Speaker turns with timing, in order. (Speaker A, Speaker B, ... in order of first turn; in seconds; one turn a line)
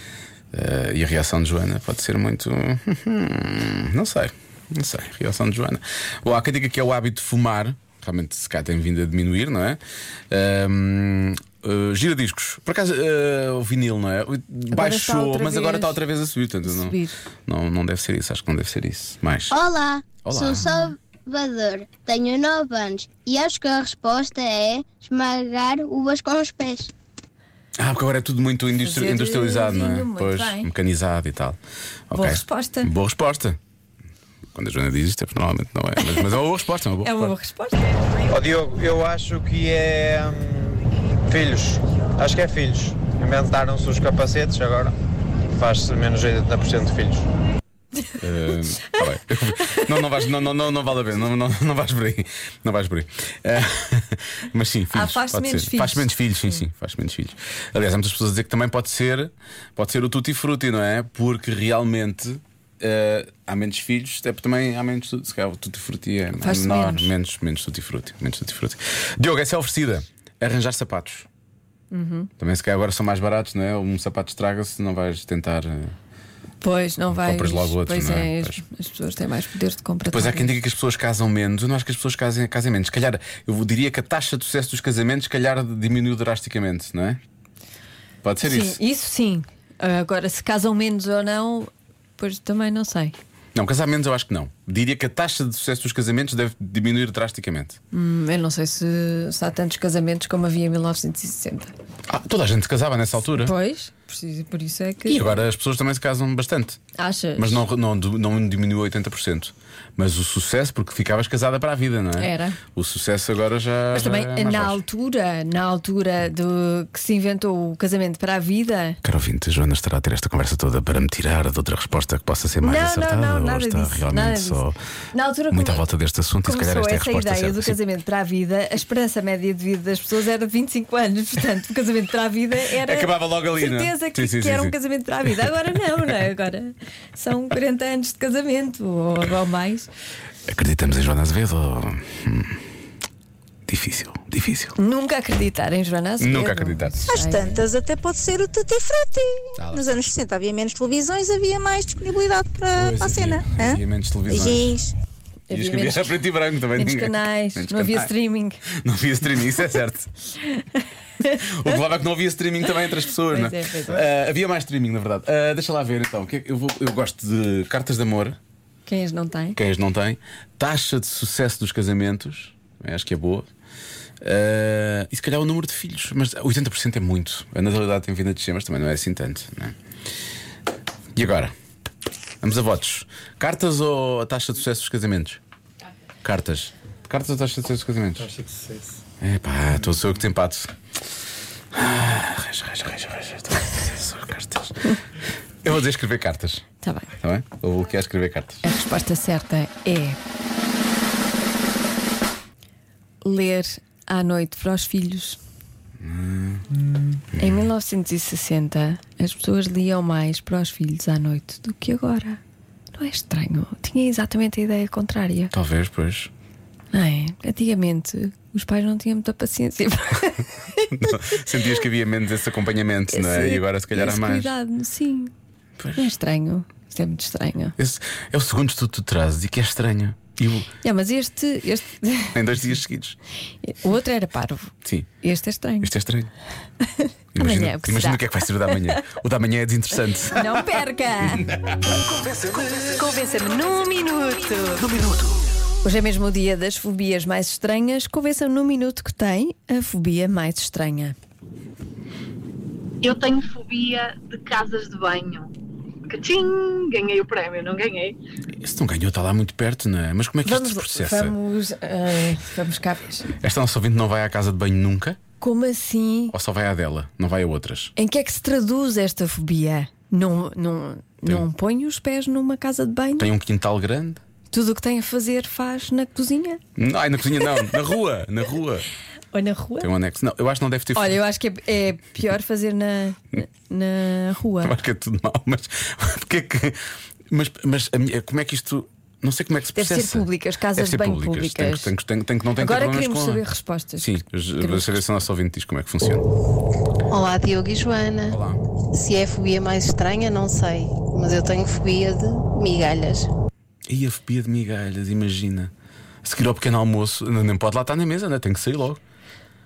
Speaker A: 0.5-19.6
Speaker B: 14.7-16.0
Speaker B: 16.6-17.2
Speaker C: 19.5-26.9
Speaker A: 20.2-20.7
Speaker A: 27.8-31.6
Speaker B: 28.8-30.7
Speaker A: 32.1-33.6
Speaker B: 32.1-32.9
Speaker A: 34.5-37.3
Speaker B: 37.0-38.0
Speaker D: 38.3-44.9
Speaker D: 45.5-47.2
Speaker A: 48.2-71.3
Speaker B: 54.9-56.1
Speaker B: 66.4-67.1
Speaker B: 71.9-72.3
Speaker A: 72.4-75.9
Speaker B: 76.6-80.5
Speaker A: 77.1-78.6
Speaker A: 80.1-87.2
Speaker A: 88.2-88.8
Speaker B: 88.4-93.2
Speaker A: 93.5-97.8
Speaker B: 97.9-101.7
Speaker A: 102.1-103.5
Speaker B: 103.3-105.3
Speaker A: 105.1-106.8
Speaker B: 107.0-107.6
Speaker A: 107.3-114.8
Speaker B: 112.2-112.6
Speaker B: 113.9-119.0
Speaker A: 119.0-124.8
Speaker B: 122.6-125.8
Speaker A: 125.5-127.8
Speaker B: 126.4-139.9
Speaker A: 132.7-134.7
Speaker A: 140.4-142.6
Speaker A: 143.7-144.8
Speaker B: 144.8-147.6
Speaker A: 146.2-147.0
Speaker E: 147.0-154.9
Speaker A: 149.6-150.1
Speaker A: 152.7-154.7
Speaker B: 155.5-156.2
Speaker A: 155.5-158.1
Speaker B: 156.7-158.6
Speaker A: 158.7-160.1
Speaker B: 160.4-161.4
Speaker A: 161.3-168.4
Speaker B: 163.2-164.0
Speaker B: 168.8-169.6
Speaker A: 169.5-173.5
Speaker A: 174.2-179.8
Speaker A: 181.1-181.5
Speaker A: 182.4-185.4
Speaker A: 186.2-188.3
Speaker A: 189.2-190.7
Speaker A: 191.7-195.0
Speaker A: 195.6-196.6
Speaker B: 196.8-197.1
Speaker A: 197.2-198.6
Speaker B: 198.6-200.2
Speaker B: 203.2-205.4
Speaker A: 206.0-206.7
Speaker A: 207.3-207.7
Speaker B: 207.4-212.4
Speaker B: 212.9-215.5
Speaker A: 215.5-216.3
Speaker B: 216.9-221.1
Speaker A: 220.9-224.5
Speaker B: 223.1-225.3
Speaker A: 225.8-226.0
Speaker B: 225.9-227.8
Speaker A: 227.8-230.7
Speaker B: 230.8-232.4
Speaker A: 232.3-233.2
Speaker B: 233.6-235.9
Speaker A: 234.8-235.1
Speaker A: 235.8-236.3
Speaker B: 236.9-239.0
Speaker A: 237.3-240.7
Speaker B: 240.3-241.5
Speaker A: 241.3-242.7
Speaker B: 242.7-245.0
Speaker A: 244.8-245.2
Speaker B: 245.8-251.1
Speaker F: 253.0-255.5
Speaker F: 256.1-258.2
Speaker A: 258.6-261.3
Speaker B: 260.4-263.3
Speaker A: 263.4-265.2
Speaker B: 265.4-266.3
Speaker A: 266.3-267.9
Speaker B: 267.9-273.3
Speaker A: 273.2-274.2
Speaker B: 274.5-276.6
Speaker A: 276.8-278.9
Speaker B: 279.3-279.9
Speaker A: 279.8-281.2
Speaker B: 280.9-284.8
Speaker A: 284.6-293.4
Speaker B: 289.7-291.9
Speaker B: 292.6-295.0
Speaker A: 294.0-296.2
Speaker G: 297.4-298.3
Speaker A: 298.3-298.6
Speaker G: 299.5-301.7
Speaker A: 303.9-305.7
Speaker A: 306.2-309.0